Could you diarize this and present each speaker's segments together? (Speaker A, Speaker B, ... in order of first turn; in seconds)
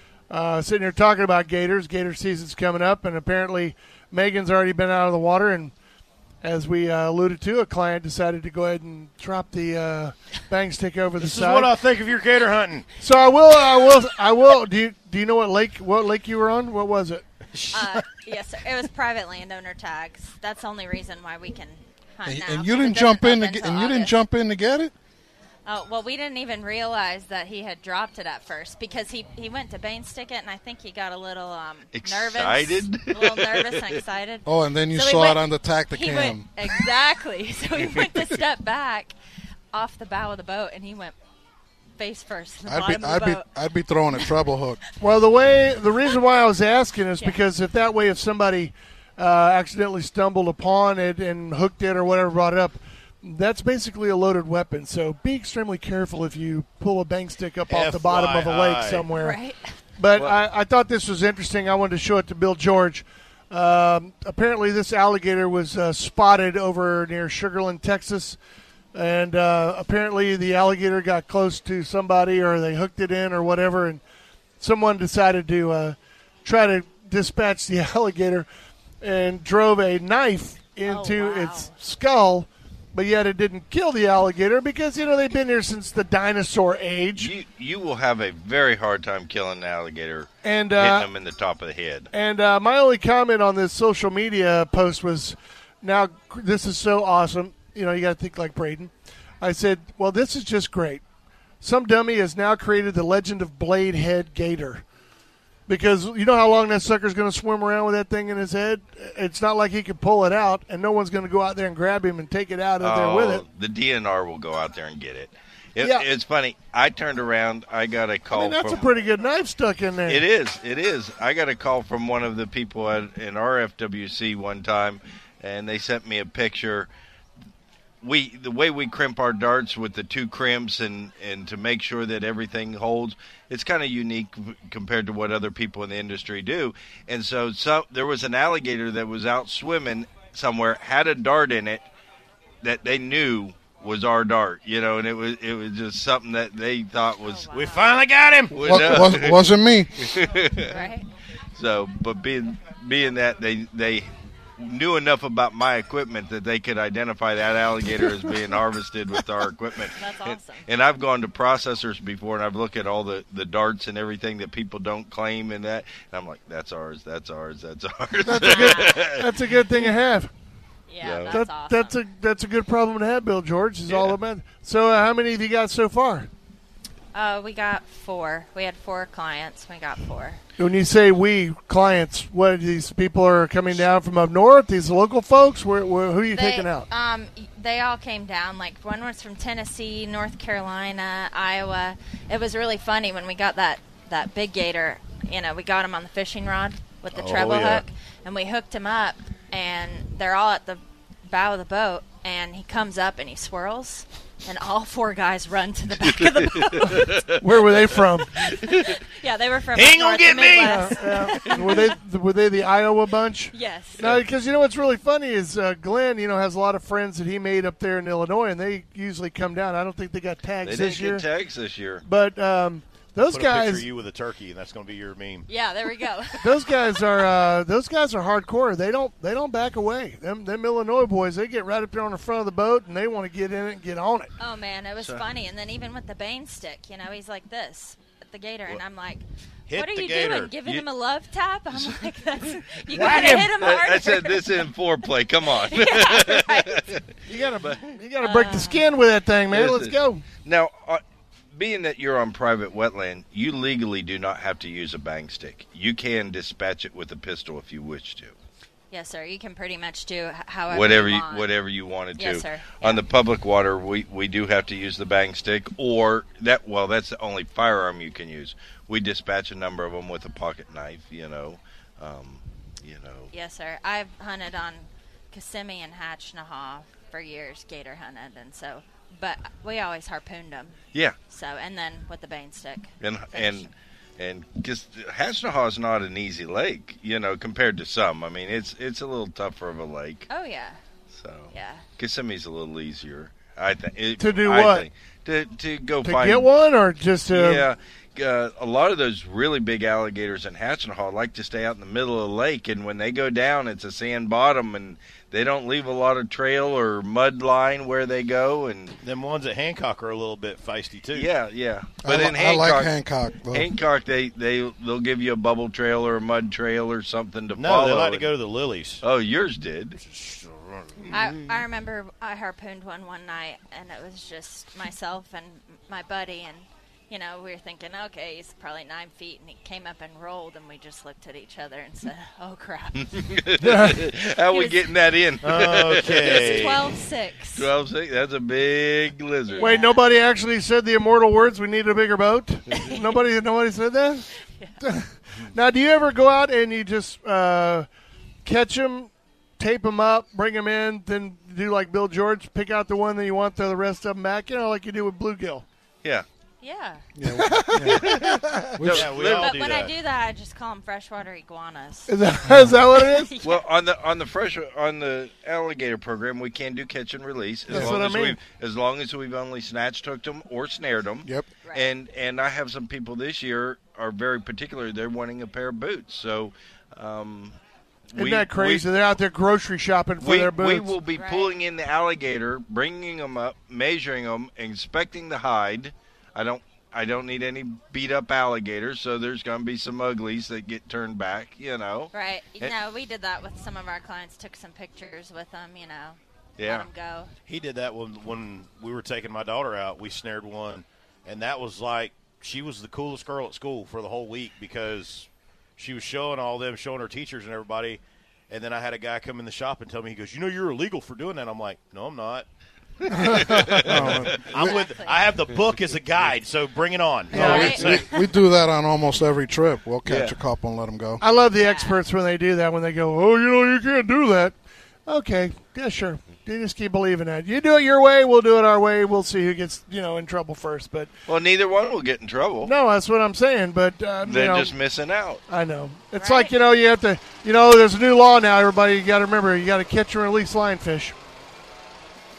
Speaker A: 0.3-5.7, 6.4-11.7, 13.0-17.2, 45.0-59.4, 60.0-68.4, 68.9-74.0, 74.6-78.5, 79.0-87.3, 90.4-91.1, 92.1-101.0, 101.6-104.8, 105.7-113.5, 115.8-116.1, 118.3-120.2, 168.2-170.3, 171.3-176.3, 180.6-186.9, 207.4-208.4, 210.6-221.3, 222.0-223.8, 226.4-234.3, 242.9-243.5, 247.3-250.2, 294.2-294.9, 296.0-297.7, 333.6-334.0, 339.6-344.3, 344.8-347.9, 348.4-355.6, 357.2-358.8, 362.1-363.3, 367.7-368.4, 378.2-380.9, 417.3-417.9, 421.2-424.6, 425.1-431.1, 432.6-434.7, 435.5-441.1
Speaker B: 11.2-12.9, 17.6-18.1, 57.7-59.1, 147.5-149.0, 197.2-197.8, 209.7-211.2, 223.2-225.5, 239.7-240.5, 309.0-311.3, 317.5-319.0, 320.0-321.1, 335.4-336.9, 358.8-359.9, 397.5-412.5, 413.3-418.0
Speaker C: 17.7-24.2, 25.7-39.1, 39.7-41.2, 42.0-43.5, 59.1-59.6, 80.9-81.7, 147.2-147.9, 150.7-151.1, 159.9-160.7, 168.4-169.0, 170.9-172.0, 177.1-180.4, 186.3-207.2, 208.4-211.9, 213.5-214.1, 225.5-226.7, 234.4-244.7, 245.4-246.9, 248.2-248.9, 258.9-261.5, 262.2-263.1, 273.3-283.7, 290.3-290.8, 291.5-291.9, 321.1-333.4, 334.5-334.9, 336.2-337.7, 339.5-340.0, 342.7-343.1, 356.6-357.0, 359.4-362.1, 362.9-363.6, 381.2-381.6, 392.1-397.3, 414.4-415.3, 417.3-418.2, 421.6-422.0, 436.2-436.5
Speaker D: 22.2-24.9, 34.5-36.5, 42.7-44.8, 148.6-150.1, 312.0-313.7, 357.1-359.1, 362.5-362.8, 367.7-368.0, 413.1-414.5, 417.3-421.2
Speaker E: 31.9-34.0, 87.2-92.1, 112.8-118.9, 120.1-126.9, 128.0-141.9, 142.6-147.5, 148.5-150.9, 151.6-169.3, 171.0-171.4, 173.9-174.2, 197.3-197.8, 206.3-207.4, 220.6-222.0, 241.7-242.0, 242.9-247.8, 249.5-251.0, 251.5-258.4, 260.7-273.3, 283.0-290.3, 291.1-296.5, 297.3-309.0, 311.1-312.9, 313.5-318.3, 319.0-320.0, 333.0-336.9, 337.5-339.8, 358.8-359.9, 363.4-377.6, 378.1-378.9, 380.2-392.7, 396.6-396.9, 413.0-414.6, 420.1-420.4, 431.3-432.7, 434.2-435.4